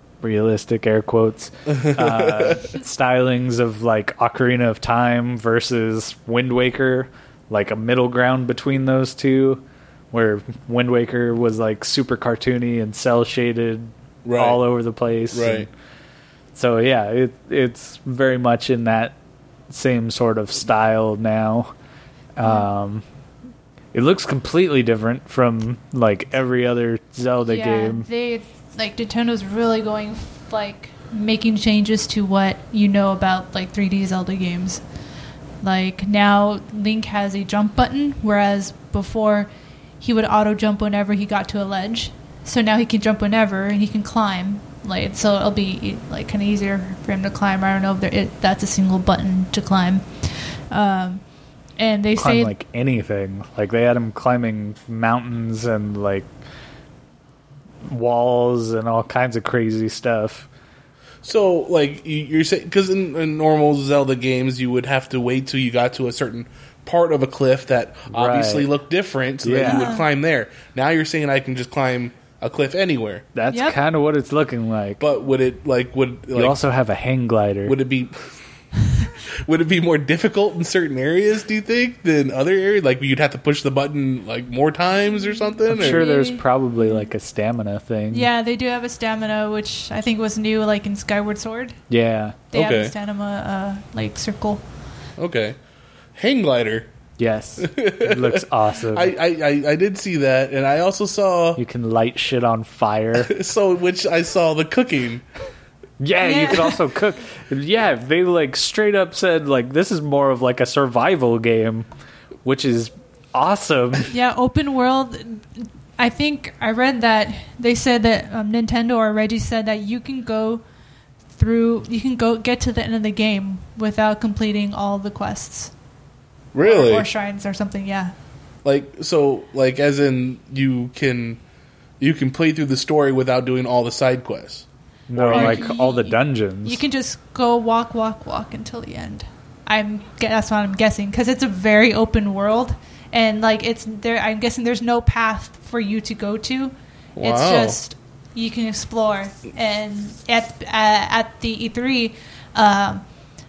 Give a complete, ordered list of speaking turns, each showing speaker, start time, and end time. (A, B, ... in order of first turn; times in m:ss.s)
0:00.2-0:15.7 A
0:01.7-0:02.6 B
0:14.2-0:14.6 B
0:15.3-0:15.7 B
0:16.5-0:19.1 A
0:19.7-0:21.7 A
0:22.4-0:23.0 A
0:22.4-0:22.7 C
0:23.9-0:28.1 A
0:27.4-0:34.8 C
0:35.6-0:51.2 C
0:51.8-0:52.5 C
0:52.2-0:56.3 A
0:57.8-1:00.5 A
1:01.2-1:13.2 B
1:08.1-1:08.7 A
1:09.4-1:09.9 A
1:09.6-1:10.0 C
1:13.3-1:15.0 A
1:13.5-1:13.8 C
1:15.0-1:16.6 B
1:16.3-1:17.8 A
1:17.6-1:18.3 B
1:19.4-1:26.1 B
1:25.3-1:27.1 C
1:25.7-1:28.3 A
1:28.1-1:31.8 C
1:31.9-1:32.4 A
1:32.5-1:34.6 C
1:32.5-1:32.9 B
1:35.2-1:35.6 B
1:36.1-1:36.9 B
1:37.2-1:39.1 A
1:37.6-1:41.6 B
1:41.6-1:43.3 A
1:43.2-1:45.2 B
1:46.0-1:51.9 A
1:46.2-1:46.8 C
1:52.4-1:54.1 A
1:54.1-2:00.6 C
2:01.4-2:05.7 C
2:06.5-2:07.1 B
2:06.6-2:08.1 C
2:08.6-2:11.4 B
2:12.0-2:15.7 B
2:15.1-2:16.8 A
2:15.3-2:33.0 C
2:27.2-2:27.8 B